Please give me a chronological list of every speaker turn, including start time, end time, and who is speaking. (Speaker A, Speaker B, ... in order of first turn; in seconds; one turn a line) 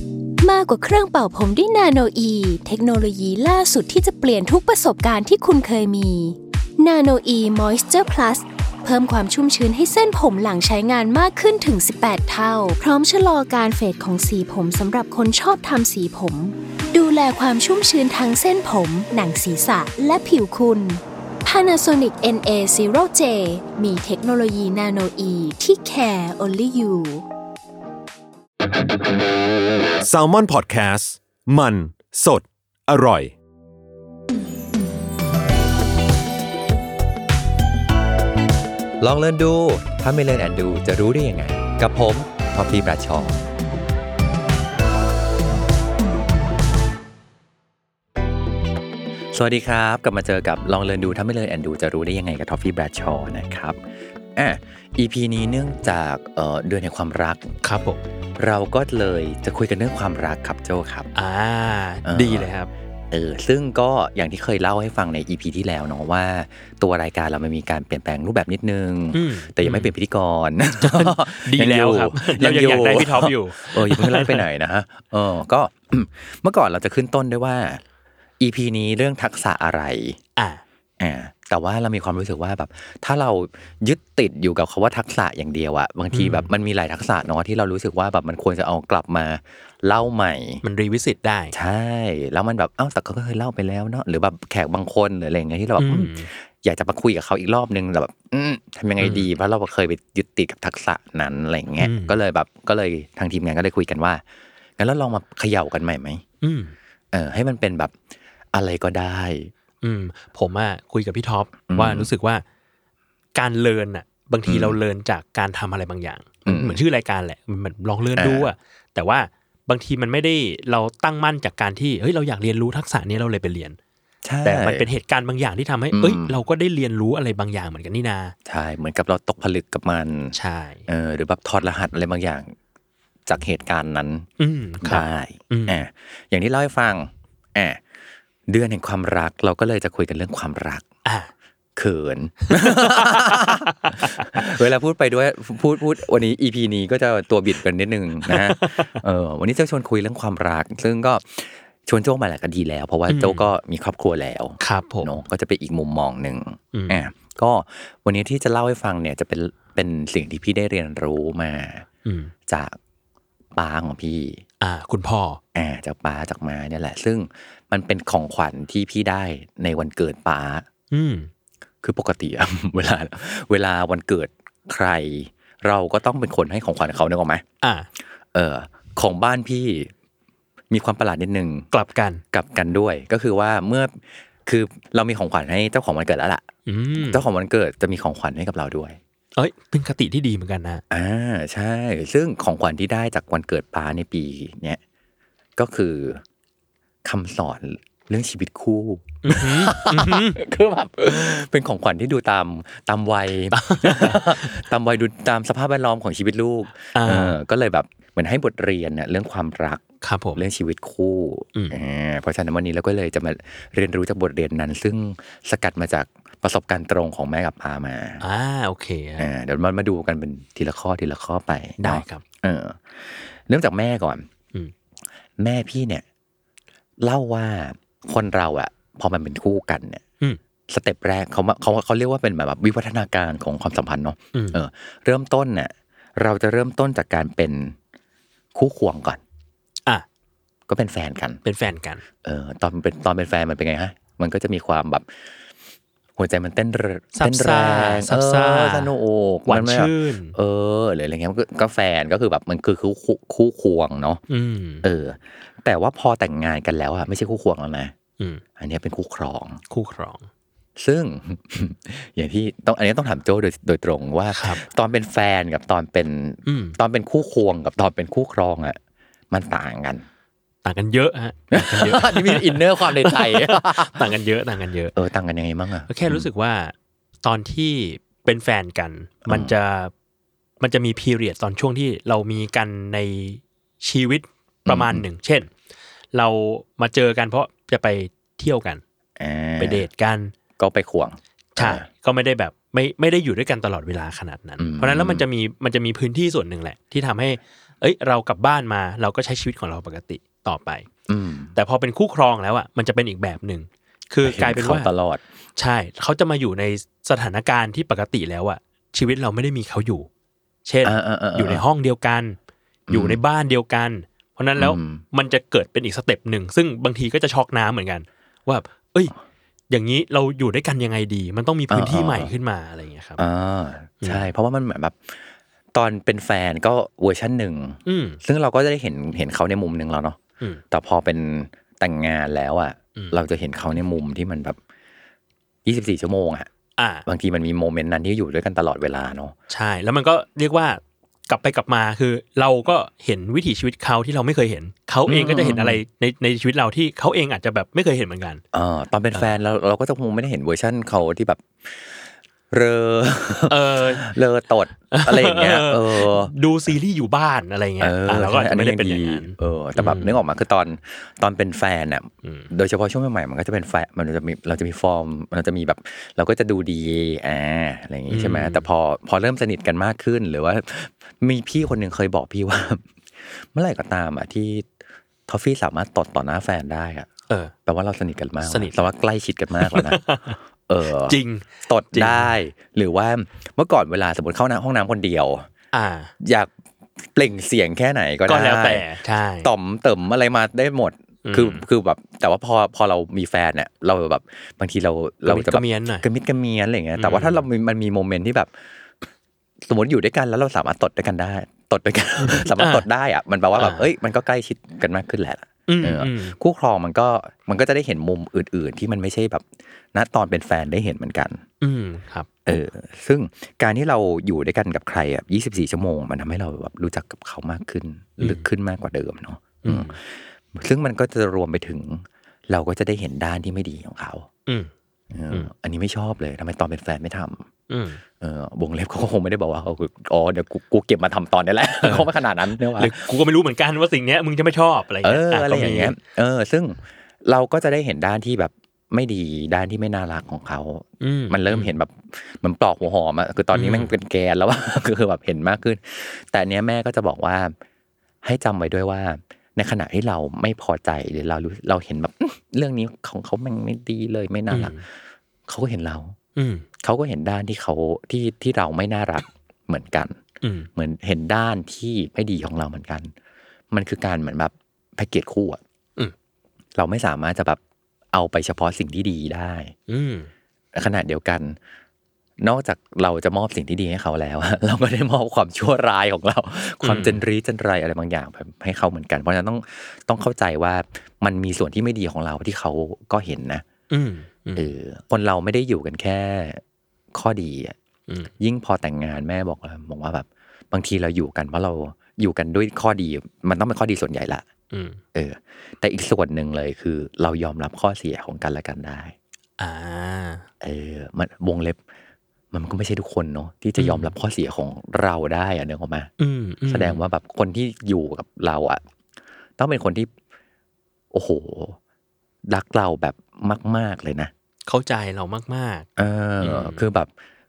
Speaker A: 0.4-27.2
Speaker B: 30.0-33.3
Speaker C: 39.0-43.4
Speaker C: 49.3-53.8
Speaker C: 54.3-57.6
Speaker D: 57.6-58.0
Speaker C: 58.4-61.1
Speaker D: 61.1-62.7
Speaker C: 62.0-62.5
Speaker C: 63.1-77.8
Speaker D: 69.1-69.9
Speaker D: 70.8-74.5
Speaker C: 78.4-80.2
Speaker D: 80.4-80.6
Speaker C: 81.0-90.6
Speaker D: 86.1-86.5
Speaker D: 90.6-91.5
Speaker C: 91.5-104.2
Speaker D: 95.8-96.3
Speaker D: 99.0-99.3
Speaker D: 101.8-102.2
Speaker C: 104.8-106.2
Speaker D: 106.4-106.7
Speaker C: 107.1-107.9
Speaker C: 108.5-109.5
Speaker D: 109.8-112.4
Speaker C: 111.7-112.1
Speaker D: 113.3-123.8
Speaker C: 114.5-114.8
Speaker C: 116.4-116.8
Speaker C: 118.2-118.5
Speaker C: 124.2-124.9
Speaker D: 124.4-128.3
Speaker C: 125.9-126.4
Speaker C: 128.4-130.3
Speaker D: 130.3-130.9
Speaker C: 130.9-132.6
Speaker C: 133.3-134.3
Speaker D: 134.4-135.8
Speaker C: 134.8-137.8
Speaker C: 138.5-140.8
Speaker D: 141.1-141.3
Speaker C: 141.8-161.9
Speaker D: 142.5-144.5
Speaker D: 148.3-149.0
Speaker D: 153.1-153.5
Speaker D: 154.6-155.2
Speaker D: 156.7-157.0
Speaker D: 162.1-162.3
Speaker C: 162.5-162.8
Speaker C: 163.5-164.4
Speaker D: 164.6-165.4
Speaker C: 165.6-170.7
Speaker D: 170.9-171.3
Speaker C: 171.8-177.4
Speaker D: 177.6-177.9
Speaker C: 178.3-179.9
Speaker C: 180.7-181.7
Speaker D: 181.7-182.2
Speaker C: 182.3-186.5
Speaker D: 186.7-187.2
Speaker C: 187.0-189.0
Speaker D: 189.4-190.8
Speaker C: 190.9-194.8
Speaker C: 195.6-196.2
Speaker C: 197.0-209.8
Speaker D: 199.2-200.4
Speaker D: 203.5-204.6
Speaker D: 206.9-207.4
Speaker D: 210.0-210.4
Speaker C: 210.4-218.2
Speaker D: 218.2-219.3
Speaker C: 219.2-224.3
Speaker D: 221.8-222.2
Speaker C: 225.4-226.0
Speaker C: 227.0-230.0
Speaker C: 230.7-237.8
Speaker D: 234.3-234.6
Speaker C: 238.6-239.2
Speaker C: 240.7-241.4
Speaker D: 241.4-242.1
Speaker C: 242.2-245.1
Speaker C: 246.2-254.2
Speaker D: 247.2-248.9
Speaker D: 249.5-250.4
Speaker D: 254.3-254.9
Speaker C: 254.8-257.9
Speaker C: 258.6-259.6
Speaker D: 259.7-260.3
Speaker C: 260.8-268.8
Speaker D: 264.3-264.6
Speaker D: 266.4-266.8
Speaker C: 269.3-270.1
Speaker D: 270.6-274.9
Speaker C: 271.5-274.1
Speaker C: 274.9-276.3
Speaker D: 275.9-279.9
Speaker C: 279.2-279.5
Speaker D: 280.6-285.5
Speaker C: 284.7-285.0
Speaker D: 286.1-288.8
Speaker C: 289.2-289.9
Speaker D: 289.6-290.4
Speaker C: 290.6-291.9
Speaker D: 291.6-300.9
Speaker C: 294.6-295.2
Speaker C: 301.1-301.5
Speaker D: 301.6-304.9
Speaker C: 304.2-305.2
Speaker D: 305.6-310.1
Speaker D: 310.6-312.4
Speaker C: 310.8-311.6
Speaker C: 312.9-313.2
Speaker D: 312.9-319.1
Speaker C: 314.6-315.0
Speaker D: 319.7-323.2
Speaker C: 321.7-322.3
Speaker C: 323.2-330.2
Speaker D: 324.0-324.3
Speaker D: 327.9-328.2
Speaker C: 330.7-334.6
Speaker C: 335.6-336.5
Speaker D: 336.8-337.1
Speaker C: 337.1-339.4
Speaker D: 339.5-348.4
Speaker C: 345.1-345.8
Speaker C: 348.5-352.0
Speaker C: 352.5-356.4
Speaker D: 353.5-354.1
Speaker D: 354.9-360.2
Speaker C: 357.8-374.7
Speaker D: 362.2-362.5
Speaker D: 368.1-368.7
Speaker C: 375.3-377.1
Speaker D: 377.3-377.5
Speaker C: 377.7-380.0
Speaker D: 378.4-378.9
Speaker D: 379.5-380.4
Speaker C: 380.7-385.5
Speaker D: 380.9-382.3
Speaker D: 385.7-386.1
Speaker C: 386.2-388.9
Speaker D: 388.3-389.5
Speaker C: 389.4-398.5
Speaker D: 391.2-391.6
Speaker D: 395.2-396.1
Speaker D: 397.0-397.4
Speaker C: 399.6-411.4
Speaker D: 402.2-402.9
Speaker D: 403.6-403.9
Speaker D: 405.7-406.4
Speaker D: 411.6-412.3
Speaker C: 412.4-424.3
Speaker D: 418.2-418.4
Speaker D: 419.6-419.9
Speaker C: 425.1-427.5
Speaker D: 427.7-428.0
Speaker C: 428.2-433.0
Speaker D: 431.8-432.1
Speaker D: 432.7-435.9
Speaker C: 435.0-447.6
Speaker D: 441.0-441.7
Speaker D: 443.5-443.9
Speaker C: 448.2-454.8
Speaker D: 454.5-454.8
Speaker C: 455.5-456.2
Speaker D: 456.4-456.7
Speaker C: 456.8-460.2
Speaker D: 460.4-460.7
Speaker C: 460.8-463.1
Speaker C: 463.7-465.6
Speaker C: 466.8-467.6
Speaker C: 468.1-469.7
Speaker D: 469.9-470.3
Speaker C: 470.7-471.6
Speaker C: 472.4-483.6
Speaker D: 476.8-477.2
Speaker D: 483.9-484.7
Speaker C: 484.6-486.6
Speaker C: 487.1-487.8
Speaker C: 488.4-494.4
Speaker D: 494.7-495.0
Speaker C: 495.1-499.1
Speaker D: 499.6-500.5
Speaker C: 500.6-501.8
Speaker C: 502.5-506.1
Speaker D: 503.8-504.1
Speaker D: 506.2-507.0
Speaker C: 506.7-508.8
Speaker C: 509.6-510.1
Speaker C: 511.1-511.8
Speaker C: 512.5-514.3
Speaker D: 514.6-515.9
Speaker C: 516.0-517.1
Speaker D: 516.4-516.9